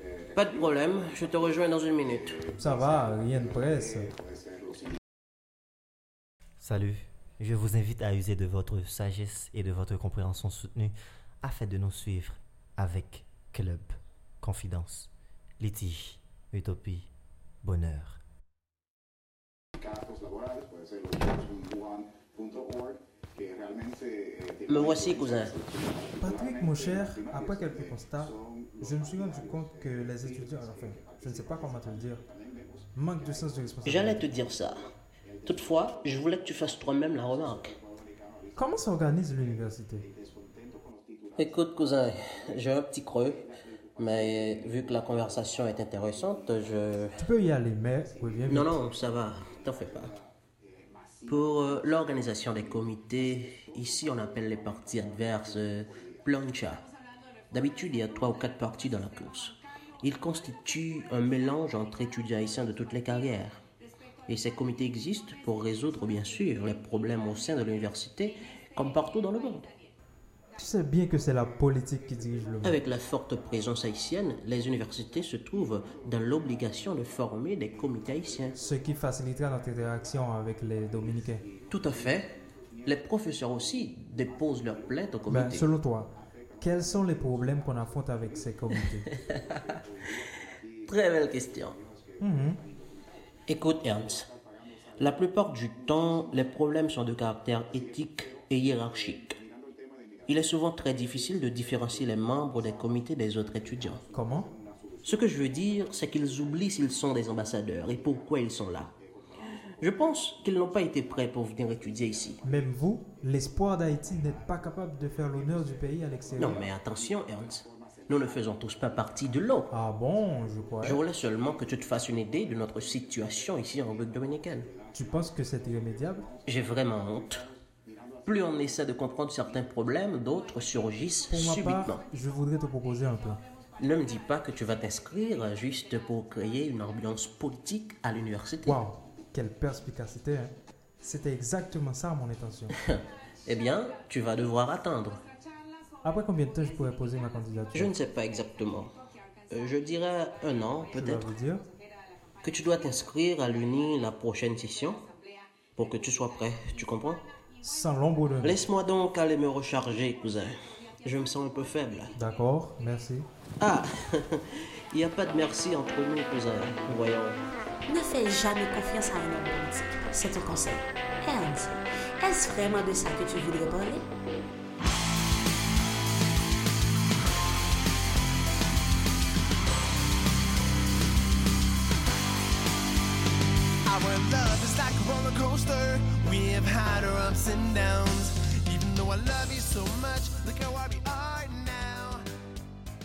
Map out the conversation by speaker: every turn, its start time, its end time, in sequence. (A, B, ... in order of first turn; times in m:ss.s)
0:00.3-0:02.4 A
0:02.5-0:04.1 B
0:06.6-0:17.1 C
0:17.6-0:18.2 C
0:24.7-0:25.6 A
0:26.2-0:32.2 B
0:32.9-0:34.2 B
0:33.8-0:34.8 A
0:35.4-0:37.8 A
0:38.5-0:40.1 B
0:41.4-0:43.4 A
0:44.0-0:47.2 A
0:47.2-0:48.8 B
0:48.5-0:50.2 A
0:51.2-0:56.9 A
0:57.5-1:03.6 A
1:04.3-1:09.7 A
1:10.6-1:12.8 B
1:12.6-1:18.6 A
1:18.6-1:21.4 B
1:21.7-1:22.3 A
1:22.8-1:25.7 A
1:25.3-1:29.1 B
1:30.9-1:31.8 A
1:32.2-1:32.6 B
1:33.5-1:34.3 A
1:35.0-1:39.4 A
1:40.3-1:44.0 A
1:44.1-1:44.5 B
1:45.0-1:48.9 A
1:49.8-1:52.4 A
1:52.4-1:56.6 B
1:56.4-1:59.7 A
1:59.7-2:01.0 B
2:00.8-2:04.7 A
2:04.9-2:06.3 B
2:06.5-2:07.5 A
2:08.2-2:12.0 A
2:11.3-2:13.4 B
2:13.8-2:18.8 A
2:18.6-2:22.8 B
2:22.8-2:25.2 A
2:26.0-2:27.9 B
2:27.7-2:28.9 A
2:29.5-2:31.3 A
2:30.9-2:31.6 B
2:32.4-2:35.0 A
2:35.8-2:37.2 A
2:37.6-2:38.6 B
2:38.4-2:42.1 A
2:42.1-2:43.3 B
2:43.6-2:47.4 A
2:47.9-2:54.0 D
3:03.8-3:12.2 E